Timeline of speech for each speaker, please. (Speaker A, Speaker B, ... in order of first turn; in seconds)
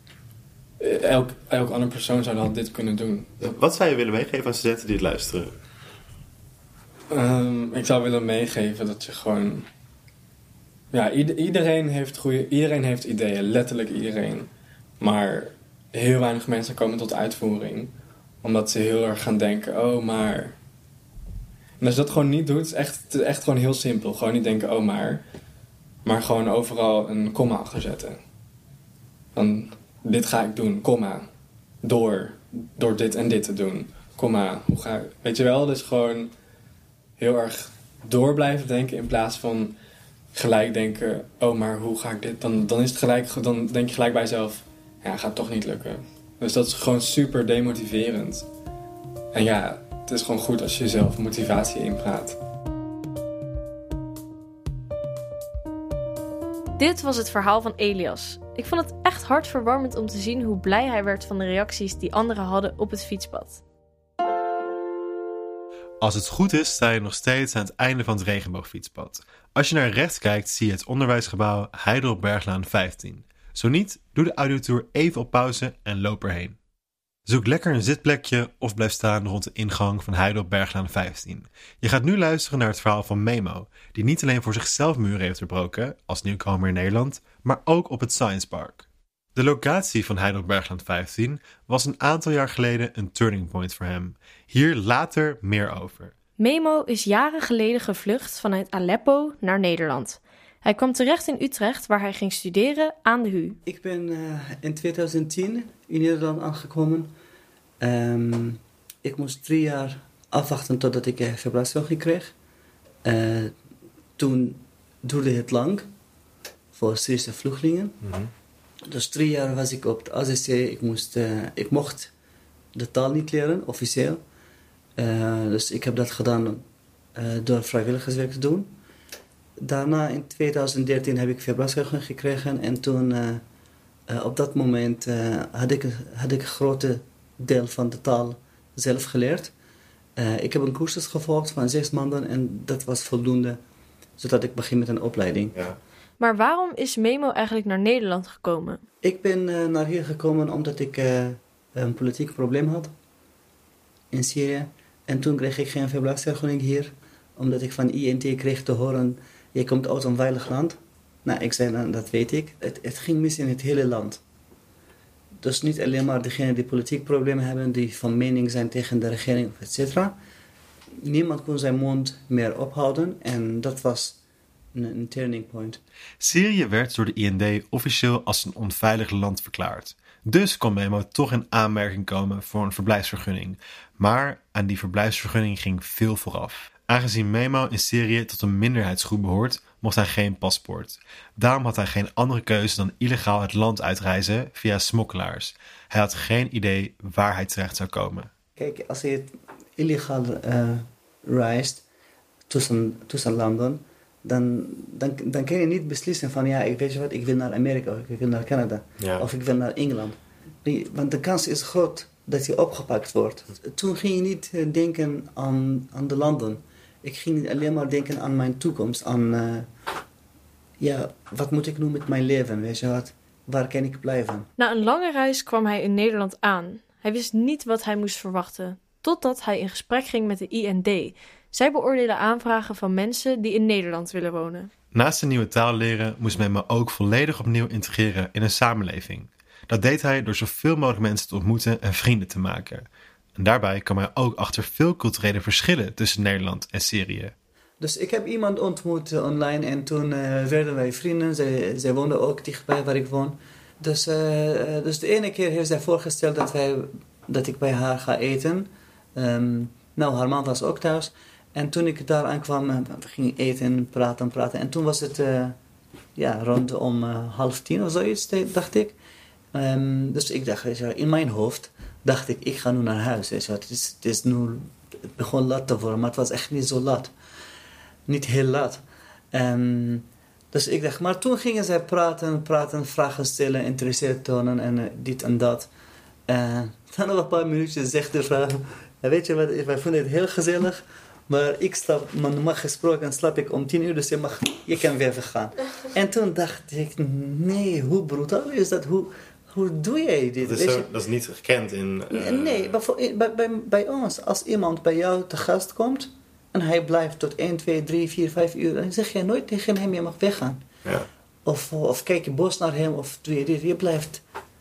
Speaker A: 0.8-3.3, 7.1-9.7, 10.9-14.5, 15.0-17.9, 18.4-20.6, 21.8-25.2, 26.0-28.2, 29.3-31.3, 31.8-36.3, 37.2-39.8, 40.3-48.5, 49.3-52.4
Speaker B: 3.4-5.5, 118.0-118.3, 209.0-209.2, 300.4-302.7
Speaker C: 56.8-63.6, 96.4-103.6, 146.2-148.8, 224.6-234.7
Speaker D: 66.0-76.6, 77.2-96.1, 176.2-198.3, 234.9-247.3
Speaker E: 103.7-107.1, 107.8-112.3, 113.0-113.5, 114.2-115.9, 116.7-118.0, 118.9-122.1, 122.7-124.2, 125.0-126.6, 127.2-128.7, 129.6-133.4, 134.1-139.5, 140.2-143.6, 144.2-145.5, 149.0-152.9, 154.1-164.2, 165.4-170.2, 171.0-174.2, 174.7-175.8, 198.6-201.8, 202.5-219.7, 220.8-224.5, 247.8-265.6, 266.1-268.9, 269.5-277.1, 278.1-285.7, 286.3-300.9, 302.1-310.6, 311.4-314.2